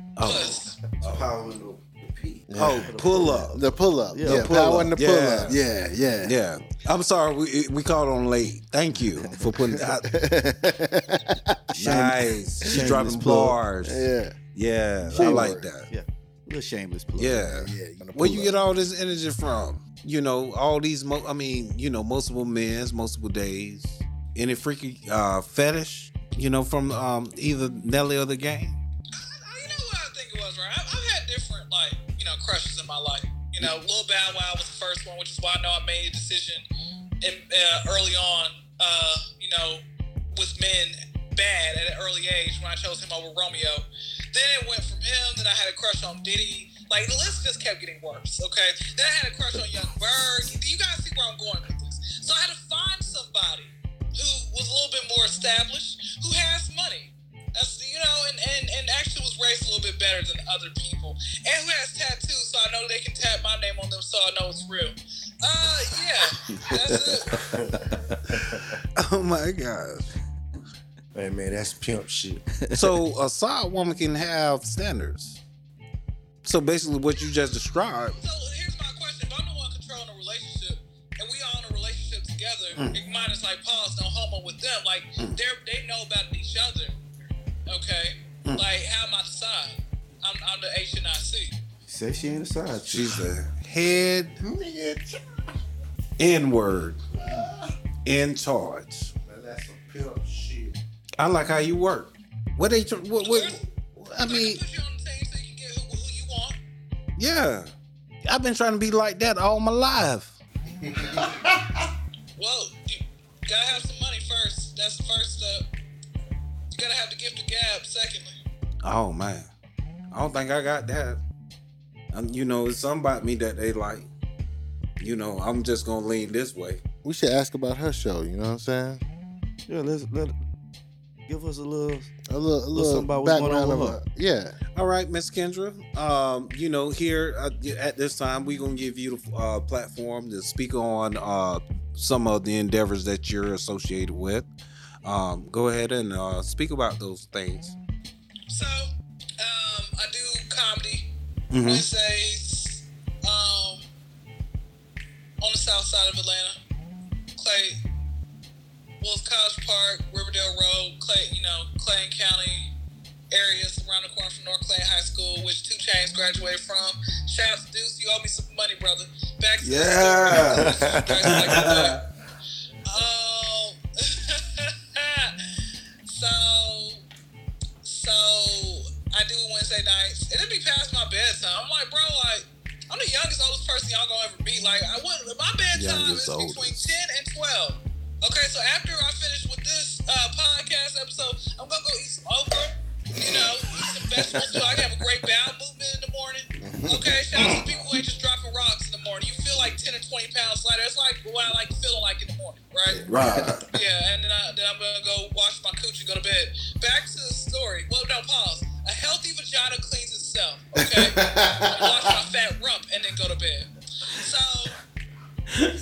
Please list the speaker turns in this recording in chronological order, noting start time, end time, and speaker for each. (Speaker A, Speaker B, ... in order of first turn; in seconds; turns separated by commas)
Speaker A: 0.2-1.2, Speaker B: 0.2-0.7, Speaker C: 1.0-4.9, Speaker D: 2.5-6.3, Speaker A: 2.6-3.5, Speaker A: 4.2-5.6, Speaker A: 6.2-10.1, Speaker D: 9.8-12.1, Speaker C: 11.7-12.1, Speaker A: 11.8-15.9, Speaker D: 12.6-12.9, Speaker C: 12.7-13.6, Speaker D: 13.8-14.3, Speaker D: 15.0-15.7, Speaker C: 15.2-17.4, Speaker A: 17.2-28.8, Speaker D: 17.4-18.5, Speaker B: 29.1-36.6, Speaker B: 37.2-39.8, Speaker B: 40.3-67.4, Speaker E: 67.5-67.8, Speaker A: 69.0-70.1, Speaker E: 71.1-72.4, Speaker C: 72.6-72.9, Speaker A: 72.7-75.4, Speaker A: 76.4-78.2, Speaker B: 78.1-87.0, Speaker A: 82.7-83.0, Speaker B: 87.7-91.5, Speaker C: 91.9-93.2, Speaker A: 92.9-94.4, Speaker D: 94.4-95.1, Speaker A: 96.2-97.0, Speaker D: 97.2-97.6, Speaker A: 98.0-99.1, Speaker E: 99.3-100.7, Speaker A: 101.2-104.6, Speaker B: 103.2-103.7, Speaker B: 104.2-106.6, Speaker A: 107.2-107.7, Speaker A: 108.2-110.4, Speaker D: 111.0-111.5, Speaker B: 112.4-115.7, Speaker B: 116.7-118.4, Speaker A: 118.8-119.5, Speaker A: 120.1-121.2, Speaker A: 122.1-124.1, Speaker A: 125.0-126.8, Speaker D: 127.0-129.0, Speaker C: 129.7-130.4, Speaker C: 131.3-132.1, Speaker D: 132.3-134.6, Speaker C: 132.7-134.0, Speaker A: 134.7-144.5, Speaker A: 145.0-147.8, Speaker B: 148.5-151.1, Speaker A: 151.5-151.9, Speaker B: 151.6-153.9, Speaker B: 155.4-156.6, Speaker B: 157.3-157.8, Speaker B: 159.0-162.7, Speaker B: 163.3-172.0, Speaker C: 169.6-170.7, Speaker A: 171.2-171.9, Speaker B: 172.9-175.3, Speaker B: 176.0-177.0, Speaker B: 177.8-203.0, Speaker C: 185.8-186.8, Speaker A: 185.8-186.6, Speaker D: 196.7-197.1, Speaker C: 202.8-203.6, Speaker D: 203.2-203.5, Speaker B: 203.7-214.7, Speaker D: 210.9-212.0